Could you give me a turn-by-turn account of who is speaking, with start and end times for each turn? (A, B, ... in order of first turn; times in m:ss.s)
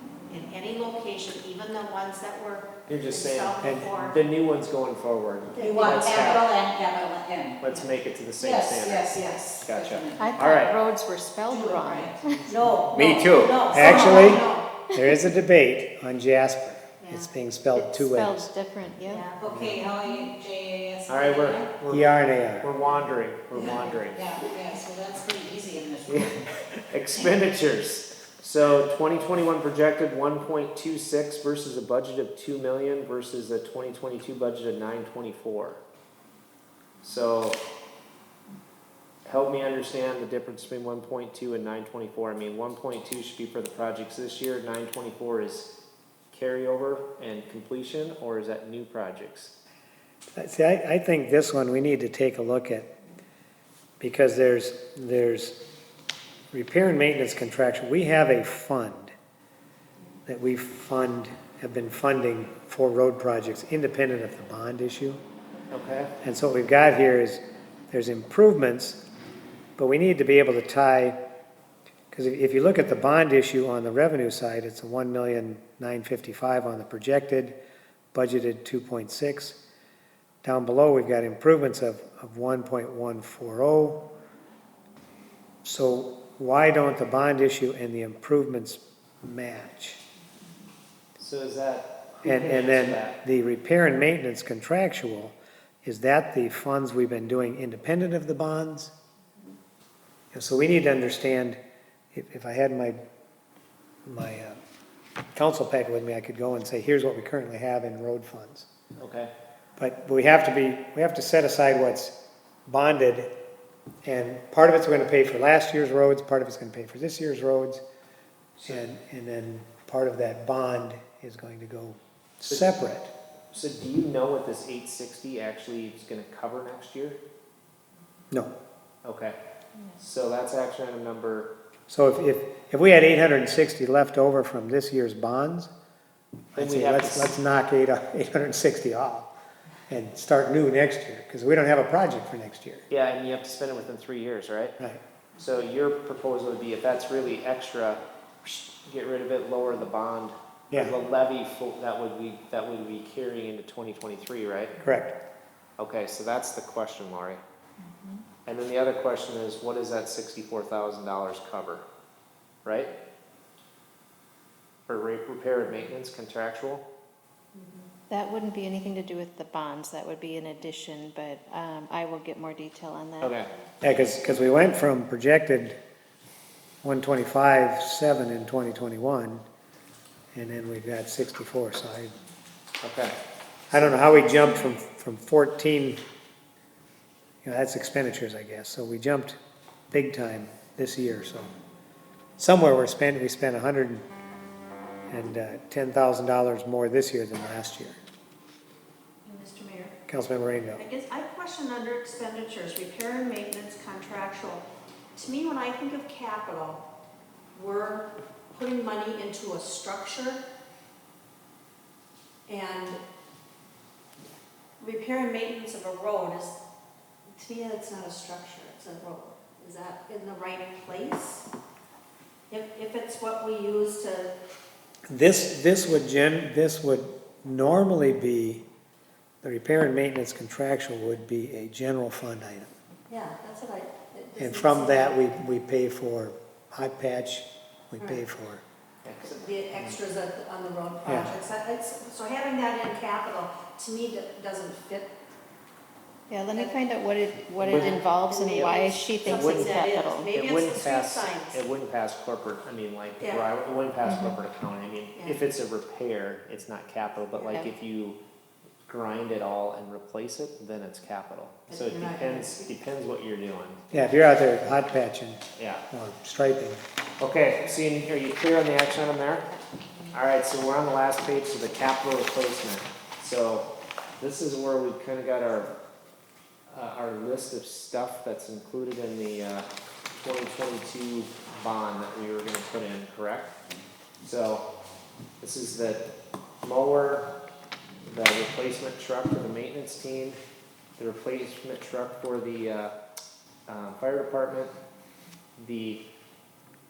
0:00.3-0:04.2 A
0:02.9-0:06.5 B
0:03.6-0:03.9 C
0:05.6-0:06.5 A
0:05.6-0:07.6 D
0:07.6-0:10.8 B
0:08.4-0:10.6 D
0:09.1-0:09.6 A
0:10.2-0:12.4 E
0:11.5-0:12.2 D
0:12.5-0:14.7 A
0:12.9-0:13.5 B
0:13.7-0:18.5 C
0:17.0-0:17.3 A
0:17.8-0:19.3 E
0:19.1-0:19.6 A
0:19.4-0:21.7 D
0:21.1-0:24.2 B
0:21.9-0:22.7 C
0:23.6-0:26.4 D
0:26.1-0:35.8 B
0:37.0-0:37.6 B
0:39.2-0:45.7 B
0:46.3-0:49.5 B
0:50.4-0:52.9 C
0:54.0-0:55.6 C
0:56.5-0:59.1 C
1:00.3-1:05.2 C
1:05.7-1:06.1 B
1:06.2-1:09.0 C
1:09.8-1:11.2 C
1:12.1-1:17.6 C
1:18.1-1:19.6 C
1:20.4-1:24.0 C
1:25.6-1:30.0 C
1:31.2-1:33.2 B
1:32.2-1:38.9 C
1:40.3-1:41.6 C
1:42.1-1:43.0 C
1:44.1-1:44.6 C
1:45.4-1:48.7 C
1:49.0-1:49.3 B
1:49.8-1:52.2 C
1:52.7-1:53.3 C
1:54.0-1:57.8 C
1:58.6-2:03.1 C
2:03.5-2:07.2 B
2:09.0-2:09.4 B
2:10.0-2:11.5 B
2:11.9-2:15.7 C
2:16.5-2:19.3 C
2:16.6-2:17.4 B
2:19.9-2:22.9 C
2:22.9-2:24.8 B
2:25.4-2:34.7 B
2:34.8-2:35.1 C
2:35.8-2:37.4 B
2:38.5-2:41.8 B
2:42.6-2:42.9 B
2:44.9-2:46.8 B
2:47.6-2:47.8 A
2:48.1-2:53.4 E
2:53.2-2:53.5 B
2:53.8-2:55.8 C
2:56.8-2:59.5 C
3:00.3-3:02.2 C
3:02.8-3:03.2 B
3:03.7-3:06.0 C
3:07.4-3:09.4 C
3:09.9-3:11.5 C
3:12.4-3:14.0 C
3:15.1-3:18.0 C
3:19.2-3:20.0 A
3:20.1-3:20.8 C
3:20.8-3:26.8 A
3:27.5-3:30.4 A
3:32.5-3:33.0 A
3:34.8-3:36.5 A
3:37.4-3:41.5 A
3:42.5-3:44.3 A
3:45.1-3:48.6 C
3:49.4-3:52.7 C
3:53.1-3:55.2 A
3:54.4-3:58.6 C
3:59.0-4:00.0 B
3:59.3-4:05.1 A
4:01.1-4:01.4 C
4:06.3-4:10.3 E
4:06.5-4:06.8 A
4:07.6-4:08.0 B
4:07.7-4:11.6 A
4:08.6-4:09.8 B
4:10.3-4:18.2 B
4:13.2-4:13.5 A
4:14.0-4:14.4 E
4:15.2-4:15.4 A
4:18.9-4:23.8 B
4:21.7-4:22.7 A
4:23.9-4:26.8 C
4:25.6-4:25.8 B
4:27.2-4:29.5 B
4:30.1-4:35.7 B
4:36.7-4:39.7 B
4:40.2-4:43.6 B
4:44.2-4:44.7 B
4:45.4-4:46.1 B
4:46.6-4:47.3 B
4:48.1-4:50.4 B
4:51.0-4:52.9 B
4:53.7-4:54.7 B
4:55.6-4:56.0 B